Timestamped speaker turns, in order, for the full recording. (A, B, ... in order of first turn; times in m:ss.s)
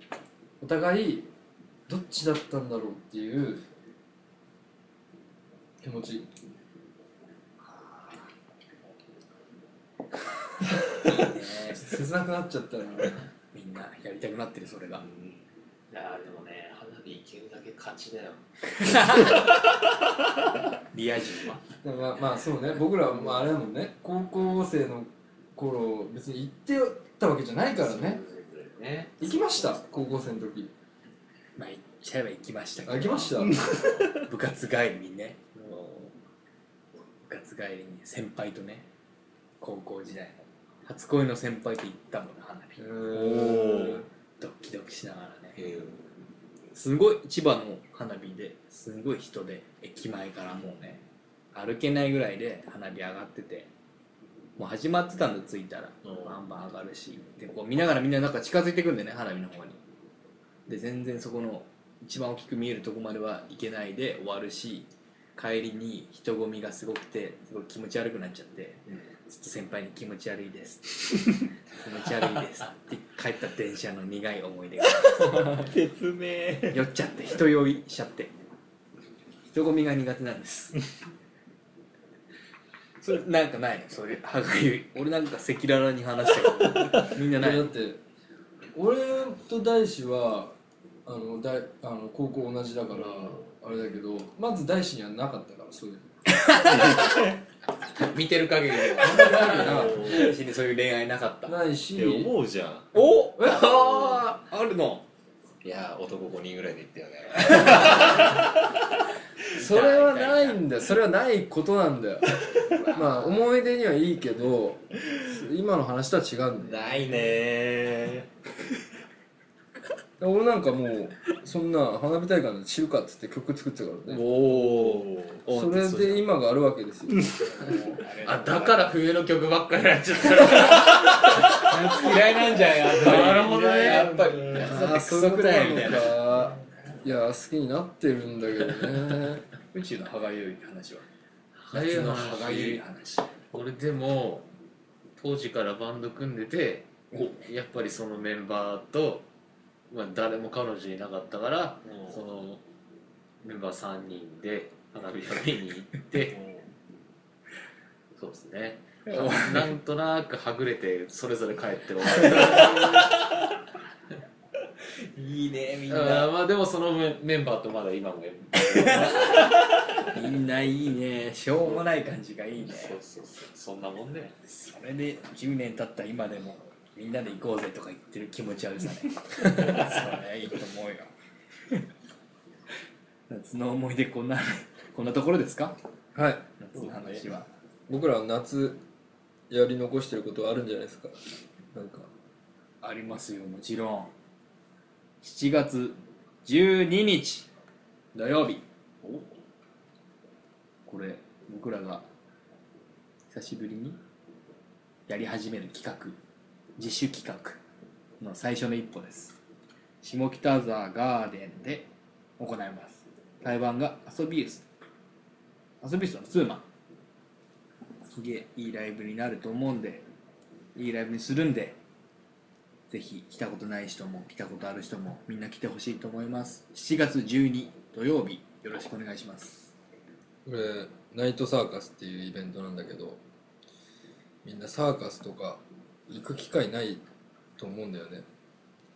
0:00.6-0:01.3 A
0:01.9-0:03.6 A
0:05.8-0:06.2 A
0:07.6-0:08.3 B
0:11.0-0:12.0 B
0:11.7-0:13.2 A
0:13.5-0:15.0 B
0:15.1-0:15.4 C
0:15.9-0:18.4 D
0:18.8-0:19.5 B
0:20.9-0:21.6 B
0:21.8-0:28.2 A
0:27.8-0:29.2 D
0:29.2-0:30.7 A
0:31.6-0:35.4 B
0:32.8-0:33.6 A
0:33.7-0:34.0 C
0:35.5-0:36.1 C
0:37.2-0:38.9 B
0:39.6-0:42.8 B
0:42.8-0:44.0 A
0:43.1-0:44.0 C
0:44.4-0:45.6 B
0:45.6-0:46.0 C
0:46.7-0:51.0 B
0:51.5-0:53.7 B
0:54.6-0:59.8 B
0:56.0-0:56.3 C
1:00.7-1:15.7 B
1:15.0-1:16.8 C
1:16.7-1:18.3 B
1:19.5-1:20.8 B
1:23.0-1:27.7 B
1:27.3-1:28.0 A
1:28.7-1:30.5 A
1:31.0-1:36.1 A
1:36.5-1:37.1 B
1:36.6-1:37.3 C
1:37.9-1:41.6 B
1:38.1-1:39.4 D
1:39.2-1:40.1 A
1:39.3-1:40.3 C
1:41.4-1:42.3 A
1:41.9-1:43.0 C
1:42.9-1:45.0 B
1:43.4-1:43.7 A
1:45.6-1:48.2 C
1:49.5-1:50.6 B
1:49.6-1:57.0 A
1:52.6-1:53.4 B
1:56.6-1:57.2 B
1:56.9-1:58.2 C
2:00.2-2:04.7 A
2:04.2-2:05.4 C
2:04.6-2:04.9 B
2:05.5-2:07.3 A
2:05.5-2:06.1 B
2:07.4-2:09.0 B
2:07.7-2:14.8 D
2:10.5-2:16.5 B
2:13.4-2:14.7 C
2:14.5-2:19.4 A
2:19.7-2:21.1 B
2:21.6-2:22.8 D
2:21.7-2:23.3 B
2:23.5-2:24.5 D
2:25.2-2:29.2 D
2:27.1-2:27.4 B
2:29.9-2:32.6 D
2:31.8-2:32.2 C
2:33.4-2:36.4 D
2:36.2-2:36.7 C
2:38.2-2:43.3 D
2:39.0-2:39.7 B
2:45.1-2:46.3 B
2:45.9-2:49.7 D
2:48.6-2:49.5 B
2:50.1-2:53.0 B
2:52.6-2:54.3 D
2:54.5-3:01.1 B
3:03.3-3:05.8 B
3:06.1-3:06.4 A
3:06.6-3:07.5 B
3:06.8-3:07.2 C
3:07.9-3:08.8 A
3:09.5-3:11.2 A
3:11.7-3:12.1 A
3:12.8-3:14.1 B
3:15.2-3:17.5 B
3:18.1-3:18.6 B
3:20.8-3:22.1 B
3:23.3-3:24.0 B
3:25.1-3:26.2 B
3:26.8-3:27.6 B
3:28.2-3:29.4 B
3:30.0-3:34.6 B
3:35.8-3:36.7 B
3:38.1-3:40.0 B
3:40.7-3:41.8 B
3:42.9-3:49.7 B
3:50.4-3:53.2 A
3:54.4-3:57.0 A
3:57.6-3:58.2 A